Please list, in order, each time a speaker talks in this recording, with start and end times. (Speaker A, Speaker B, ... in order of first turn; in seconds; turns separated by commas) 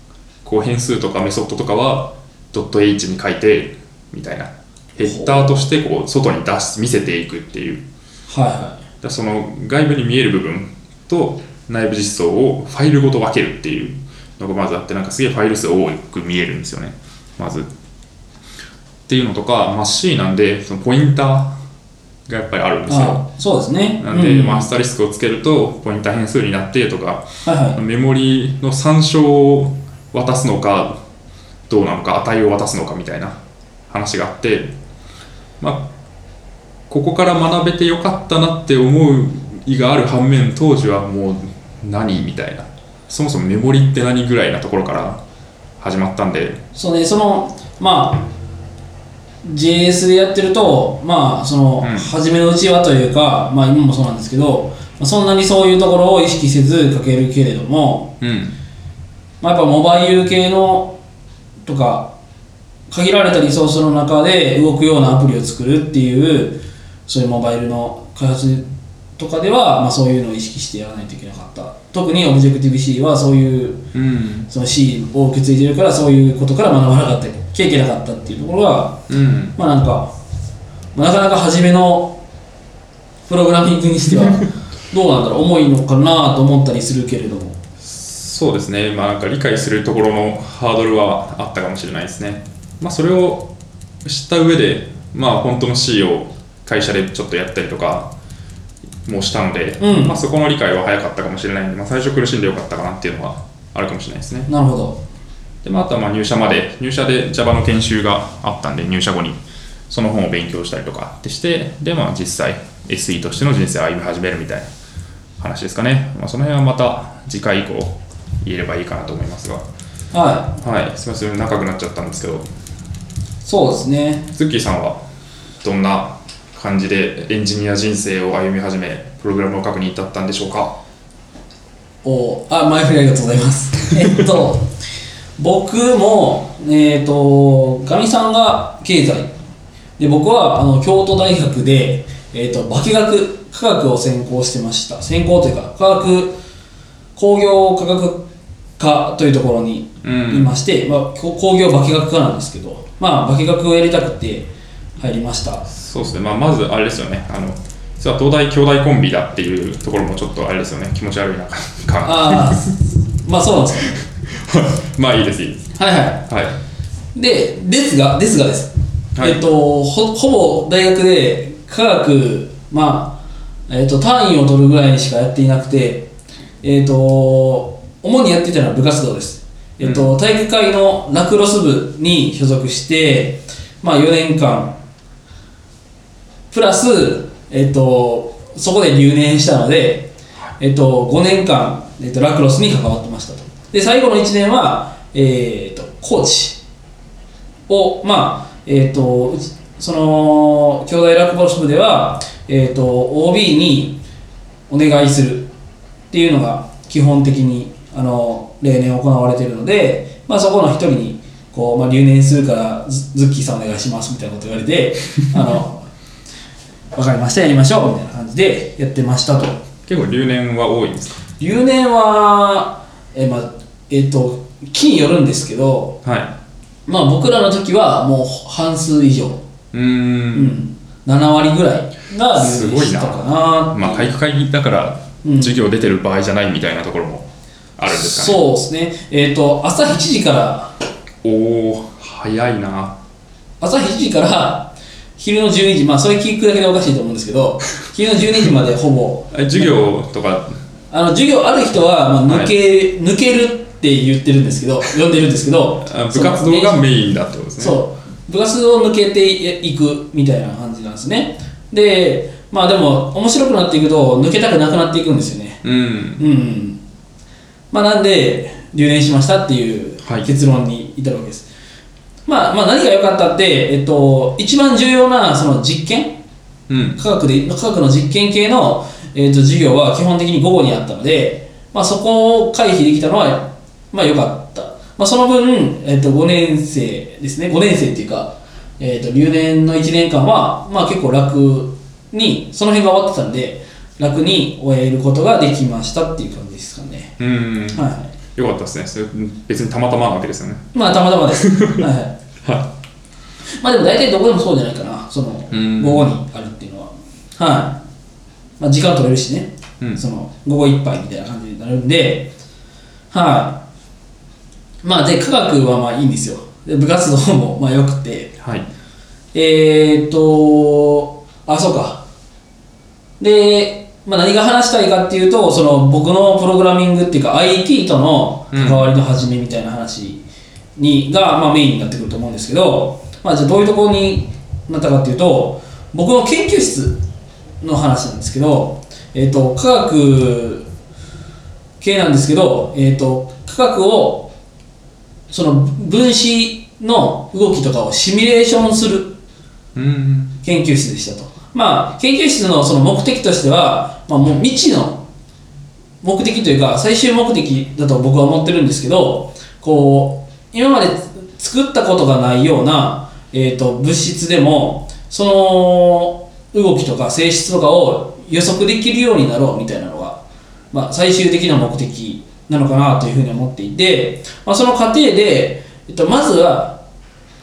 Speaker A: 0.4-7.8, Speaker B: 5.0-5.6, Speaker B: 8.3-8.8, Speaker A: 9.0-17.7, Speaker A: 19.1-21.6, Speaker A: 22.3-23.2, Speaker B: 22.9-24.7, Speaker A: 24.0-31.0, Speaker B: 27.4-27.8, Speaker A: 31.7-33.4, Speaker A: 33.9-34.7, Speaker A: 35.6-35.9, Speaker A: 36.9-45.2, Speaker A: 45.8-46.6, Speaker B: 46.7-48.3, Speaker B: 49.4-58.1, Speaker A: 51.8-52.1, Speaker A: 58.2-58.5, Speaker B: 59.4-61.0, Speaker B: 61.6-62.1, Speaker B: 62.9-73.8, Speaker A: 73.9-74.5, Speaker B: 74.5-79.0, Speaker A: 79.1-79.5, Speaker B: 79.5-80.1, Speaker B: 80.9-82.2, Speaker B: 83.3-87.6, Speaker A: 87.8-93.5, Speaker A: 94.0-98.1, Speaker A: 99.0-104.5, Speaker B: 99.8-100.2, Speaker B: 104.5-105.0, Speaker A: 105.6-114.7, Speaker A: 115.4-119.6, Speaker B: 120.1-120.5, Speaker A: 120.6-122.5, Speaker B: 123.4-124.3, Speaker A: 124.3-125.0, Speaker A: 125.6-130.8, Speaker B: 132.0-134.7, Speaker B: 135.4-139.3, Speaker B: 140.0-146.4, Speaker B: 147.1-148.2, Speaker B: 148.8-155.7, Speaker A: 150.0-150.5, Speaker A: 155.7-162.6, Speaker B: 162.0-164.0, Speaker A: 164.2-165.7, Speaker B: 165.8-166.2, Speaker A: 166.3-166.6, Speaker B: 167.1-176.1, Speaker A: 169.2-169.4, Speaker B: 176.6-184.8, Speaker A: 179.8-180.1, Speaker B: 186.5-196.6, Speaker B: 197.7-204.0, Speaker B: 204.7-205.5, Speaker B: 206.1-215.9, Speaker B: 216.9-219.6, Speaker A: 219.8-221.2, Speaker B: 221.4-226.0, Speaker A: 226.0-226.3, Speaker B: 226.9-229.4, Speaker A: 229.7-230.6, Speaker B: 230.3-234.1, Speaker A: 232.3-238.4, Speaker B: 235.2-235.6, Speaker B: 237.9-240.7, Speaker A: 241.2-242.9, Speaker B: 243.6-249.8, Speaker A: 249.3-250.5, Speaker B: 250.9-256.8, Speaker A: 252.3-252.5, Speaker A: 255.8-257.8, Speaker B: 257.6-265.6, Speaker A: 265.6-266.2, Speaker B: 266.2-266.8, Speaker B: 267.7-271.5, Speaker A: 270.0-270.3, Speaker B: 272.2-276.2, Speaker A: 276.7-277.0, Speaker B: 276.9-297.2, Speaker A: 297.2-297.8, Speaker B: 297.7-298.1, Speaker A: 298.3-300.7, Speaker B: 300.7-302.1, Speaker A: 301.4-301.8, Speaker A: 302.4-302.7, Speaker B: 303.6-307.8, Speaker A: 305.5-306.1, Speaker B: 308.6-312.3, Speaker B: 313.1-313.6, Speaker B: 314.8-318.3, Speaker A: 318.4-318.7, Speaker B: 319.3-322.0, Speaker B: 323.2-330.2, Speaker A: 328.5-328.9, Speaker B: 330.8-337.0, Speaker B: 337.6-340.7, Speaker B: 341.8-344.3, Speaker B: 345.3-349.1, Speaker A: 349.7-350.4, Speaker B: 350.4-355.1, Speaker B: 356.0-370.2, Speaker B: 370.7-376.8